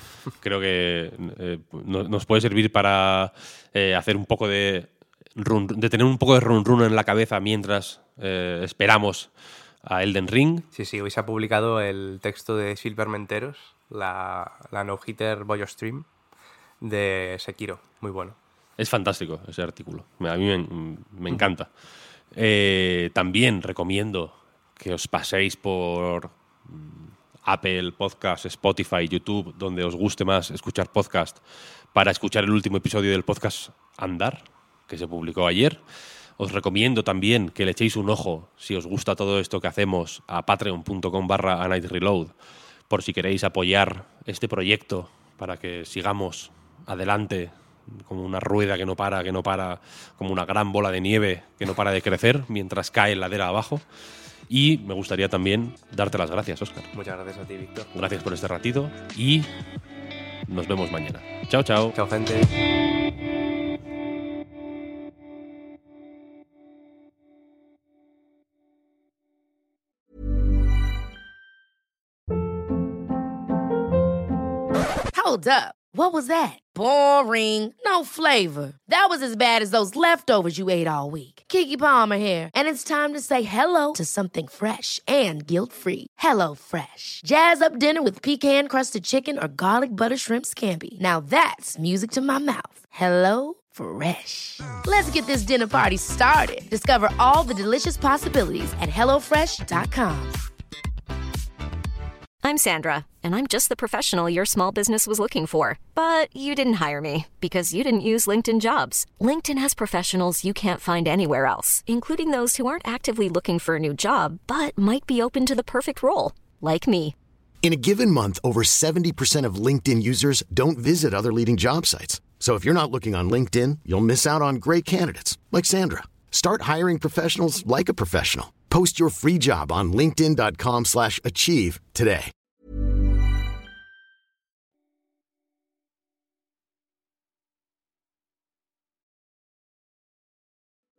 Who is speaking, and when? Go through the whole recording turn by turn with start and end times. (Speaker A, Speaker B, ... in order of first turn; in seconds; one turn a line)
Speaker A: 0.4-9.3
Speaker A: 9.9-10.7
Speaker B: 10.7-16.1
Speaker B: 16.8-18.4
Speaker A: 18.8-21.7
Speaker A: 22.3-31.4
Speaker A: 31.9-35.8
Speaker A: 36.4-42.4
Speaker A: 42.9-53.9
Speaker A: 54.5-56.9
Speaker B: 56.9-57.9
Speaker A: 57.9-59.5
Speaker A: 60.5-62.0
Speaker B: 61.9-62.5
Speaker C: 75.1-100.4
Speaker D: 102.5-117.1
Speaker E: 117.6-132.3